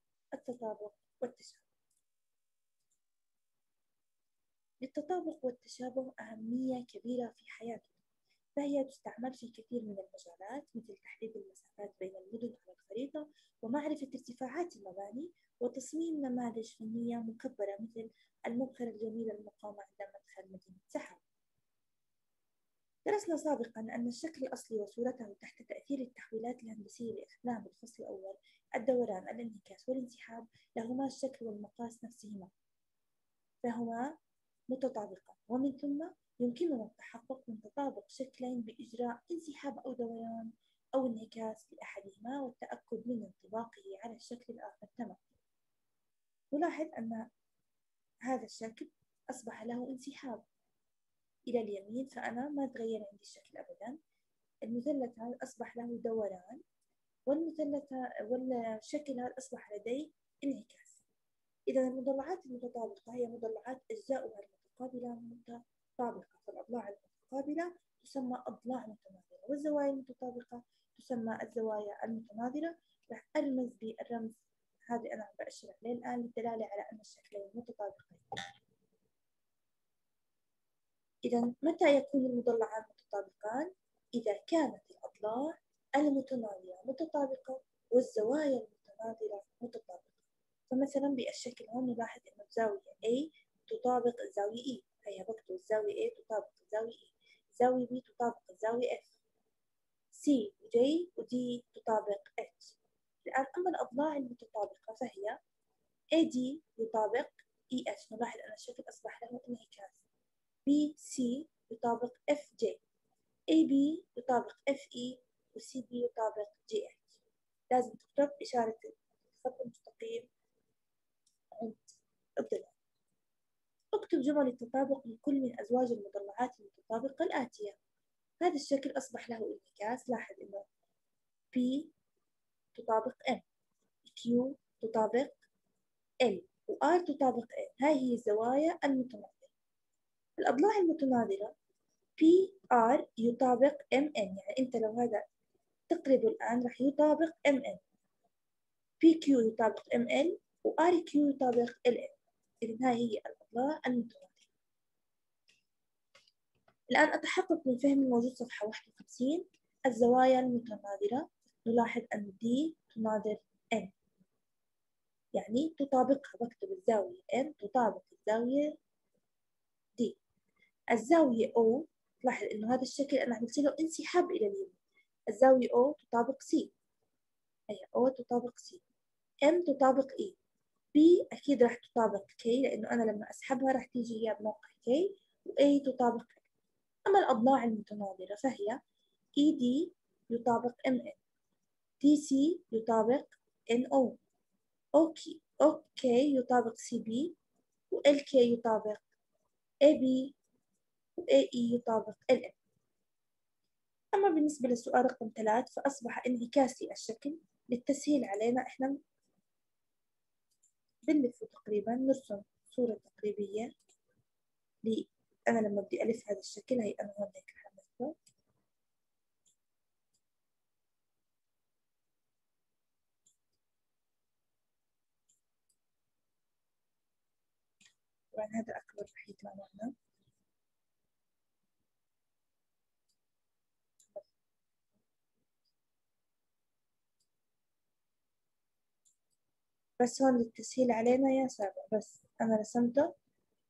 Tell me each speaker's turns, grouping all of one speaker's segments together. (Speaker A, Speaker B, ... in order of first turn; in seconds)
Speaker A: 0.3-1.7, 4.8-8.0, 8.6-21.2, 23.0-32.5, 33.6-34.2, 34.7-45.2, 46.5-47.3, 48.2-50.5, 51.5-54.0, 54.6-56.6, 57.3-61.0, 61.7-78.3, 81.2-99.1, 100.1-105.4, 106.1-110.0, 110.7-112.8, 113.5-117.2, 117.7-120.3, 121.5-121.8, 122.4-122.7, 123.9-127.8, 128.4-130.6, 131.5-131.9, 132.7-133.4, 134.0-135.4, 136.2-139.5, 140.4-141.5, 142.2-145.2, 145.9-147.8, 149.0-154.5, 156.9-163.9, 165.3-168.7, 170.9-174.8, 175.3-176.7, 177.7-178.8, 179.4-180.4, 180.9-186.5, 187.1-188.8, 189.4-191.2, 192.0-194.2, 195.0-197.3, 197.9-199.0, 199.8-200.3, 201.2-202.6, 204.1-209.0, 211.1-213.7, 214.8-218.1, 228.3-229.9, 240.0-243.1